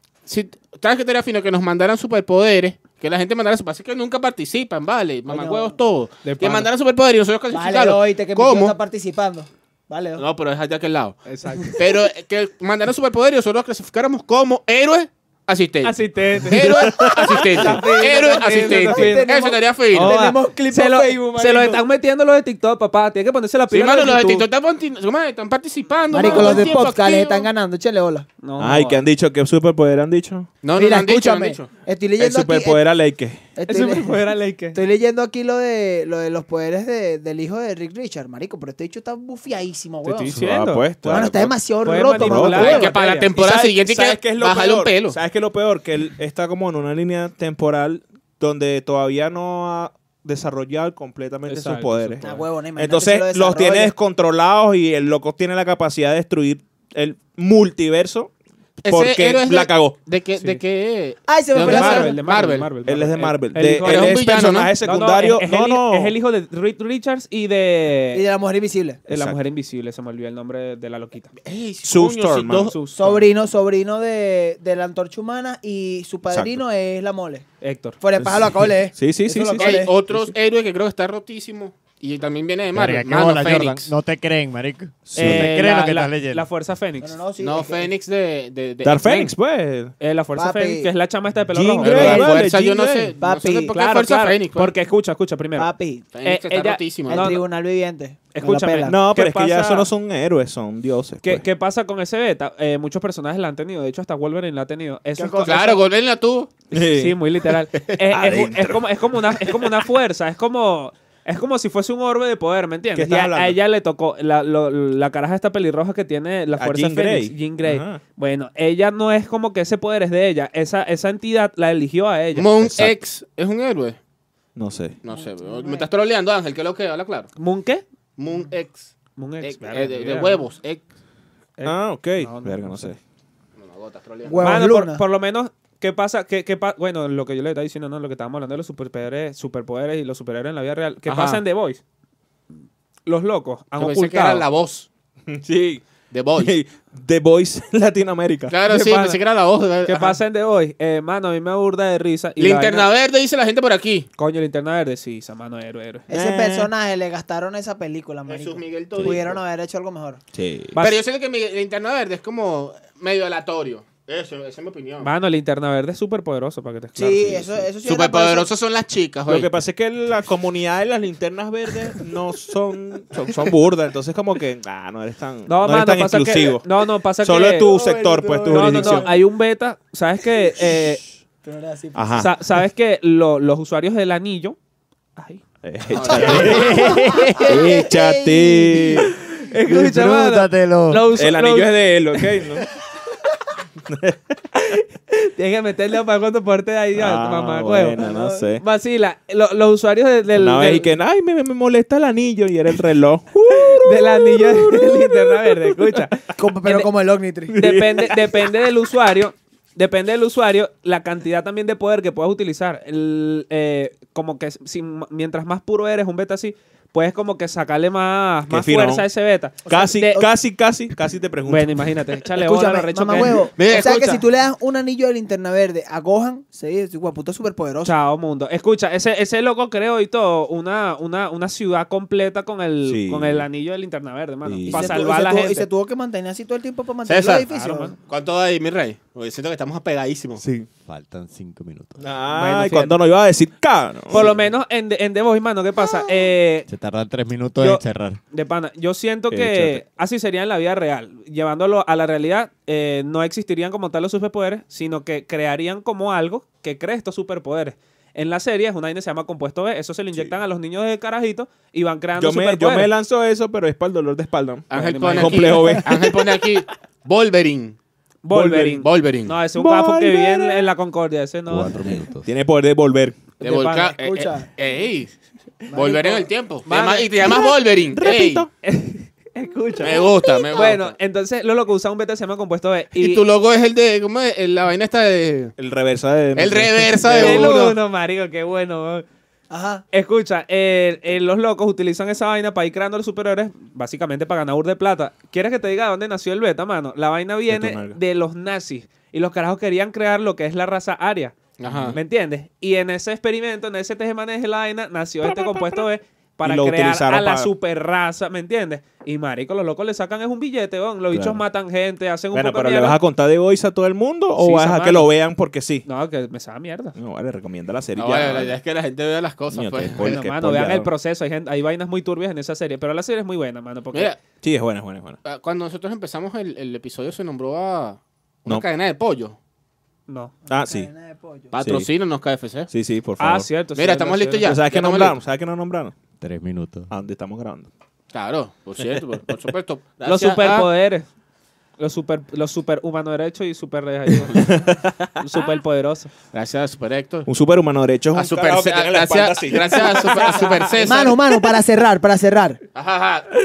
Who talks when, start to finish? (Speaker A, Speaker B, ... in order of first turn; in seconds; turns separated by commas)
Speaker A: 0.2-8.8, Speaker B: 5.3-5.8, Speaker C: 6.2-6.7, Speaker B: 7.5-10.2, Speaker A: 10.2-11.2, Speaker C: 11.2-11.8, Speaker A: 11.8-20.1, Speaker C: 15.8-19.3, Speaker D: 16.5-17.4, Speaker B: 17.5-21.8, Speaker C: 19.9-24.5, Speaker A: 23.7-27.5, Speaker B: 26.1-28.3, Speaker C: 26.2-26.7, Speaker C: 28.4-29.0, Speaker D: 28.6-30.5, Speaker A: 30.6-31.7, Speaker B: 30.7-32.8, Speaker D: 32.2-33.5, Speaker B: 33.5-34.2, Speaker C: 33.7-34.8, Speaker B: 34.7-40.3, Speaker C: 40.0-41.2, Speaker D: 40.3-42.8, Speaker B: 41.0-42.9, Speaker C: 41.8-43.3, Speaker A: 42.5-45.2, Speaker D: 43.3-58.3, Speaker C: 51.5-52.4, Speaker B: 52.2-53.9, Speaker A: 58.8-62.7, Speaker D: 58.9-60.0, Speaker B: 61.3-62.1, Speaker C: 61.6-68.2, Speaker D: 62.8-66.1, Speaker A: 63.8-64.7, Speaker B: 68.1-69.0, Speaker D: 69.1-69.4, Speaker C: 69.1-71.3, Speaker A: 71.4-72.8, Speaker D: 71.8-72.7, Speaker C: 72.5-73.2, Speaker B: 72.9-77.4, Speaker D: 76.2-76.6, Speaker C: 77.6-78.0, Speaker B: 78.0-79.9, Speaker D: 78.2-79.8, Speaker A: 79.5-83.9, Speaker E: 82.7-86.5, Speaker D: 85.0-85.5, Speaker C: 85.1-87.1, Speaker B: 87.0-87.9, Speaker A: 87.4-89.3, Speaker D: 88.8-89.9, Speaker C: 90.0-92.3, Speaker B: 90.3-90.9, Speaker D: 91.5-93.1, Speaker A: 91.8-94.7, Speaker B: 93.2-93.7, Speaker C: 93.7-95.7, Speaker B: 95.5-96.1, Speaker A: 96.1-97.3, Speaker C: 96.2-97.4, Speaker B: 97.1-99.0, Speaker C: 98.3-99.9, Speaker D: 98.9-101.4, Speaker C: 101.2-105.8, Speaker B: 105.2-105.8, Speaker A: 105.4-106.5, Speaker D: 106.7-109.8, Speaker C: 106.7-122.5, Speaker D: 112.9-113.6, Speaker D: 116.6-118.0, Speaker A: 122.3-124.0, Speaker D: 122.6-123.0, Speaker D: 124.5-125.0, Speaker A: 125.0-127.3, Speaker B: 125.1-125.9, Speaker C: 127.4-127.8, Speaker A: 128.2-130.8, Speaker C: 129.2-130.4, Speaker C: 131.6-132.9, Speaker D: 131.6-133.0, Speaker A: 133.6-134.6, Speaker B: 134.2-135.0, Speaker C: 134.4-141.8, Speaker A: 141.1-141.4, Speaker C: 143.1-144.4, Speaker A: 143.8-144.9, Speaker D: 145.3-145.8, Speaker A: 146.1-146.5, Speaker D: 146.4-148.5, Speaker A: 148.5-150.2, Speaker C: 148.7-149.2, Speaker C: 149.9-152.9, Speaker A: 152.4-154.1, Speaker C: 154.2-156.1, Speaker B: 156.1-160.2, Speaker D: 156.1-156.7, Speaker A: 158.3-159.4, Speaker D: 160.3-160.8, Speaker C: 160.7-161.0, Speaker A: 160.8-165.1, Speaker C: 165.0-167.6, Speaker B: 166.9-168.5, Speaker A: 167.8-169.5, Speaker D: 169.3-176.7, Speaker C: 175.5-177.7, Speaker D: 177.2-179.1, Speaker B: 177.6-179.2, Speaker C: 178.4-181.0, Speaker B: 181.4-182.3, Speaker D: 181.9-182.3, Speaker C: 182.2-184.6, Speaker C: 185.2-185.4, Speaker D: 185.6-189.1, Speaker A: 185.9-186.5, Speaker B: 186.1-189.1, Speaker C: 186.3-187.6, Speaker E: 186.5-187.3, Speaker C: 189.3-192.4, Speaker E: 189.6-191.1, Speaker D: 191.1-192.7, Speaker D: 193.8-194.3, Speaker C: 194.5-198.0, Speaker D: 196.9-198.6, Speaker B: 198.0-198.4, Speaker C: 198.6-200.9, Speaker D: 200.3-206.0, Speaker C: 203.5-206.9, Speaker B: 206.4-207.6, Speaker D: 207.5-208.5, Speaker C: 207.6-220.2, Speaker D: 218.5-219.1, Speaker B: 219.6-220.3, Speaker D: 219.6-221.9, Speaker C: 221.4-223.5, Speaker B: 222.3-227.9, Speaker A: 223.6-224.2, Speaker C: 227.8-235.7, Speaker D: 232.8-233.5, Speaker D: 234.4-235.0, Speaker B: 234.7-237.9, Speaker A: 237.0-237.5, Speaker C: 237.5-237.9, Speaker A: 238.1-240.4, Speaker D: 240.4-240.7, Speaker E: 240.8-242.0, Speaker D: 242.0-244.3, Speaker C: 242.3-243.0, Speaker C: 244.1-246.7, Speaker E: 246.7-248.2, Speaker C: 247.6-262.9, Speaker E: 249.3-249.6, Speaker D: 262.1-266.2, Speaker A: 264.7-267.8, Speaker C: 264.7-265.8, Speaker C: 268.2-272.1, Speaker D: 268.3-268.8, Speaker A: 268.4-269.3, Speaker D: 269.5-270.7, Speaker E: 271.5-272.3, Speaker D: 272.2-273.2, Speaker C: 273.4-273.9, Speaker A: 273.4-275.1, Speaker B: 274.0-274.5, Speaker B: 275.7-276.3, Speaker A: 275.7-278.4, Speaker C: 276.6-277.4, Speaker D: 277.9-278.5, Speaker C: 278.6-283.2, Speaker A: 279.8-280.9, Speaker A: 282.9-285.5, Speaker D: 285.6-287.5, Speaker A: 286.4-287.8, Speaker C: 287.1-289.0, Speaker B: 289.5-289.8, Speaker C: 289.9-301.4, Speaker D: 297.5-298.0, Speaker A: 301.6-301.9, Speaker D: 301.6-302.0, Speaker C: 301.9-313.0, Speaker D: 305.2-305.9, Speaker D: 306.4-307.5, Speaker D: 311.1-311.4, Speaker D: 312.3-315.9, Speaker C: 314.4-315.1, Speaker C: 315.8-317.0, Speaker D: 316.9-318.6, Speaker A: 318.0-320.1, Speaker D: 319.5-320.9, Speaker C: 320.0-324.1, Speaker D: 324.4-325.2, Speaker A: 325.2-329.4, Speaker C: 330.1-330.3, Speaker D: 330.5-330.9, Speaker B: 330.5-331.5, Speaker A: 331.5-332.7, Speaker D: 331.6-331.9, Speaker D: 332.7-333.5, Speaker C: 333.2-334.6, Speaker A: 333.8-335.1, Speaker D: 334.4-335.9, Speaker E: 336.2-336.9, Speaker D: 336.9-337.7, Speaker A: 338.1-340.7, Speaker C: 340.0-341.1, Speaker C: 341.8-346.1, Speaker D: 344.1-345.2, Speaker A: 346.3-347.3, Speaker D: 347.2-350.7, Speaker A: 348.1-351.2, Speaker B: 350.8-352.6, Speaker A: 352.7-353.3